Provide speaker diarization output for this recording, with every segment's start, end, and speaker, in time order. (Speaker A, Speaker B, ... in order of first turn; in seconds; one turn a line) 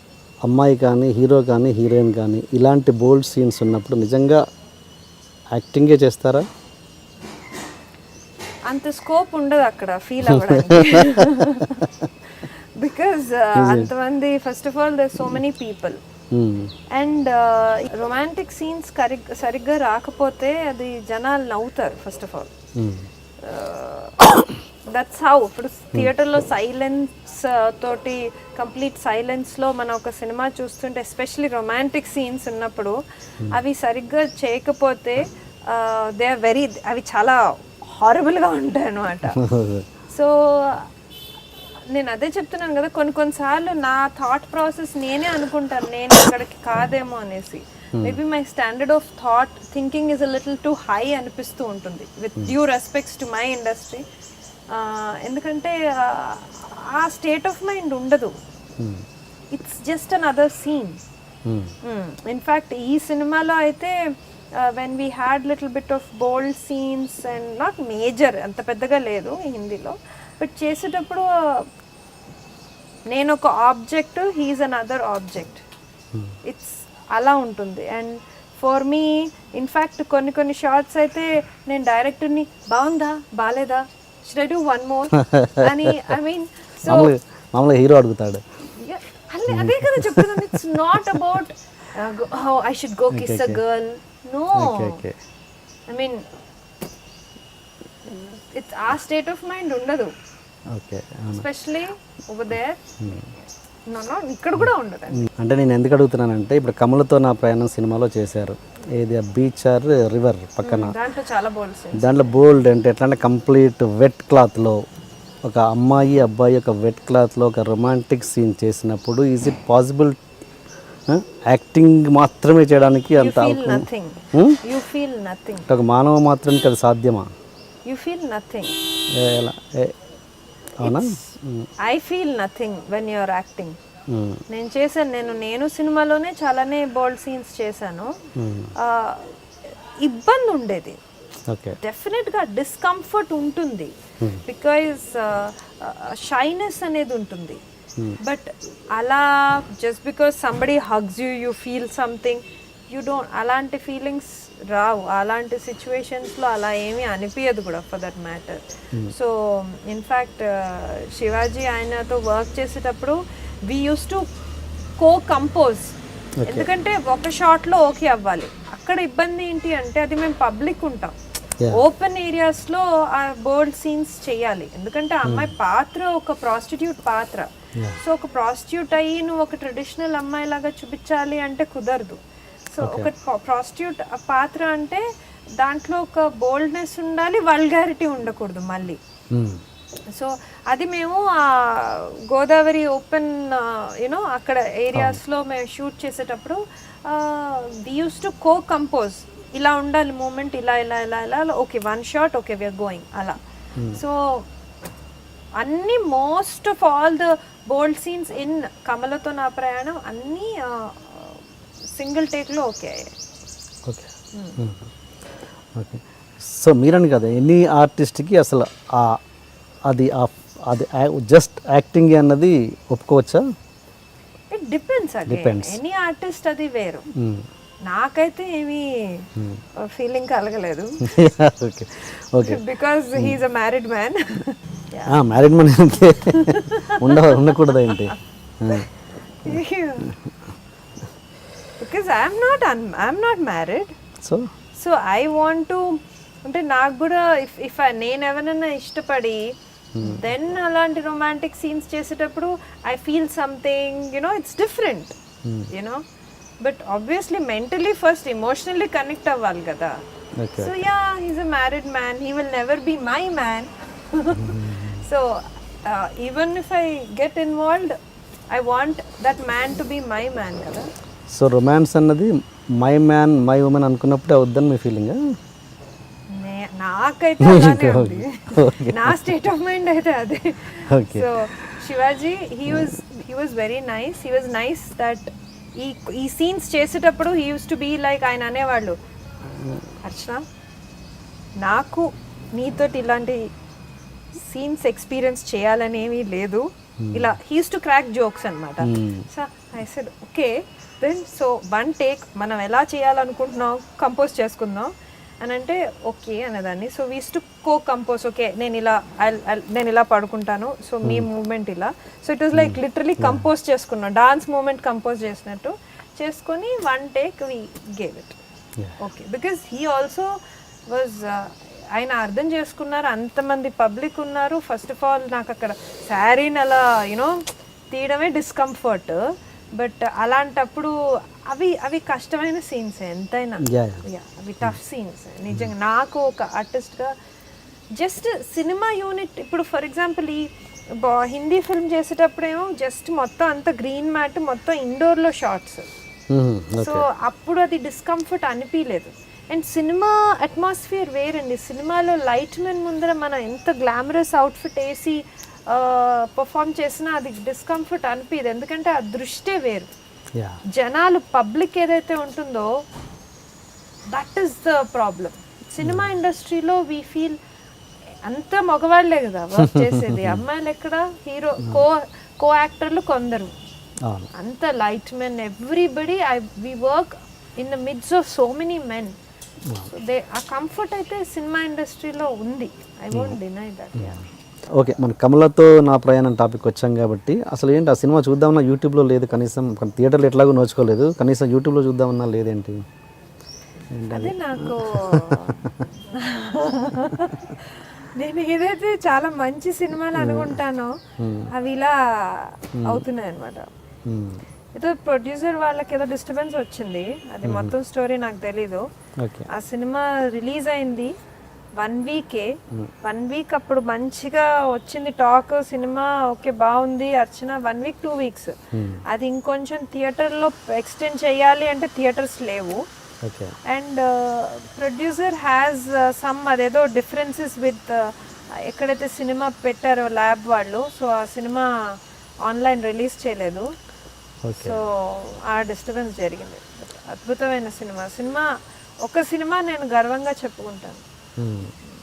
Speaker A: 0.5-4.4
Speaker A: 5.5-6.5
Speaker B: 8.7-16.0
Speaker A: 10.2-11.4
Speaker A: 13.6-13.9
Speaker A: 16.3-16.7
Speaker B: 16.9-22.5
Speaker A: 22.8-23.1
Speaker B: 23.4-33.0
Speaker B: 33.5-39.4
Speaker A: 39.4-39.9
Speaker B: 40.1-40.9
Speaker B: 41.9-54.0
Speaker B: 54.7-58.3
Speaker A: 58.8-59.0
Speaker B: 59.5-61.0
Speaker A: 61.5-61.7
Speaker B: 61.8-64.0
Speaker B: 64.5-71.7
Speaker B: 73.1-75.6
Speaker B: 76.4-87.1
Speaker A: 85.2-85.7
Speaker A: 86.9-88.4
Speaker B: 88.8-95.0
Speaker A: 89.5-90.5
Speaker A: 93.1-93.6
Speaker A: 94.5-95.1
Speaker B: 95.9-96.2
Speaker B: 98.0-100.1
Speaker A: 100.7-101.5
Speaker B: 101.3-102.8
Speaker A: 103.0-103.3
Speaker B: 103.9-105.3
Speaker A: 104.6-110.9
Speaker B: 110.6-112.4
Speaker A: 111.9-114.8
Speaker A: 115.4-120.2
Speaker A: 121.1-124.6
Speaker B: 123.2-125.7
Speaker A: 125.7-127.3
Speaker B: 127.8-128.8
Speaker A: 129.1-129.9
Speaker A: 130.8-131.7
Speaker B: 130.8-131.2
Speaker B: 131.8-133.8
Speaker A: 134.1-134.4
Speaker B: 134.5-138.1
Speaker A: 138.4-138.7
Speaker B: 138.8-139.3
Speaker B: 140.0-141.0
Speaker A: 141.5-141.8
Speaker B: 141.8-143.9
Speaker B: 144.4-147.6
Speaker B: 148.2-164.2
Speaker B: 165.0-171.2
Speaker A: 166.4-166.7
Speaker B: 171.7-185.1
Speaker A: 175.2-175.5
Speaker A: 182.8-183.1
Speaker B: 185.6-189.0
Speaker A: 189.3-189.6
Speaker B: 190.1-203.4
Speaker B: 203.9-204.5
Speaker B: 205.6-213.1
Speaker A: 213.8-214.9
Speaker B: 214.3-214.6
Speaker A: 215.7-219.2
Speaker A: 219.9-223.4
Speaker B: 224.5-227.1
Speaker A: 225.2-225.8
Speaker A: 227.2-227.5
Speaker B: 227.9-229.3
Speaker A: 229.4-229.6
Speaker B: 229.8-231.0
Speaker A: 231.1-232.6
Speaker B: 232.4-235.2
Speaker A: 235.1-238.9
Speaker B: 236.3-238.2
Speaker B: 239.4-240.1
Speaker B: 241.8-243.9
Speaker A: 244.2-244.5
Speaker B: 244.8-255.1
Speaker A: 249.9-250.2
Speaker A: 255.4-255.7
Speaker B: 255.7-256.0
Speaker B: 256.6-260.0
Speaker A: 260.4-260.7
Speaker B: 260.5-268.0
Speaker A: 264.3-265.0
Speaker B: 268.5-270.9
Speaker A: 271.3-275.2
Speaker B: 276.3-289.0
Speaker A: 277.4-279.2
Speaker A: 280.9-281.8
Speaker A: 289.5-289.8
Speaker B: 290.0-290.4
Speaker B: 291.6-293.5
Speaker B: 294.3-304.9
Speaker A: 297.0-297.3
Speaker A: 298.8-299.2
Speaker B: 305.4-318.4
Speaker A: 312.5-313.4
Speaker B: 319.0-320.3
Speaker B: 320.9-327.4
Speaker B: 327.9-329.2
Speaker B: 329.8-330.9
Speaker B: 331.5-337.1
Speaker A: 333.6-334.1
Speaker B: 337.9-345.9
Speaker A: 346.3-347.0
Speaker B: 346.8-359.9
Speaker B: 360.7-362.7
Speaker B: 364.1-367.4
Speaker A: 365.8-366.1
Speaker B: 368.2-373.6
Speaker A: 369.6-370.4
Speaker B: 374.3-379.1
Speaker B: 379.8-384.2
Speaker A: 383.1-383.4
Speaker A: 384.7-392.8
Speaker A: 393.9-395.8
Speaker B: 394.1-395.6
Speaker B: 396.1-401.0
Speaker A: 400.1-400.6
Speaker A: 401.2-401.5
Speaker B: 401.5-403.7
Speaker A: 402.8-403.0
Speaker A: 404.1-404.4
Speaker B: 404.7-408.8
Speaker A: 407.4-407.7
Speaker A: 409.2-409.5
Speaker B: 409.5-411.1
Speaker B: 411.8-412.5
Speaker B: 413.0-422.8
Speaker A: 418.7-419.0
Speaker A: 423.2-423.5
Speaker B: 423.6-433.7
Speaker A: 434.4-434.8
Speaker B: 434.5-438.5
Speaker B: 439.0-441.0
Speaker A: 441.4-441.7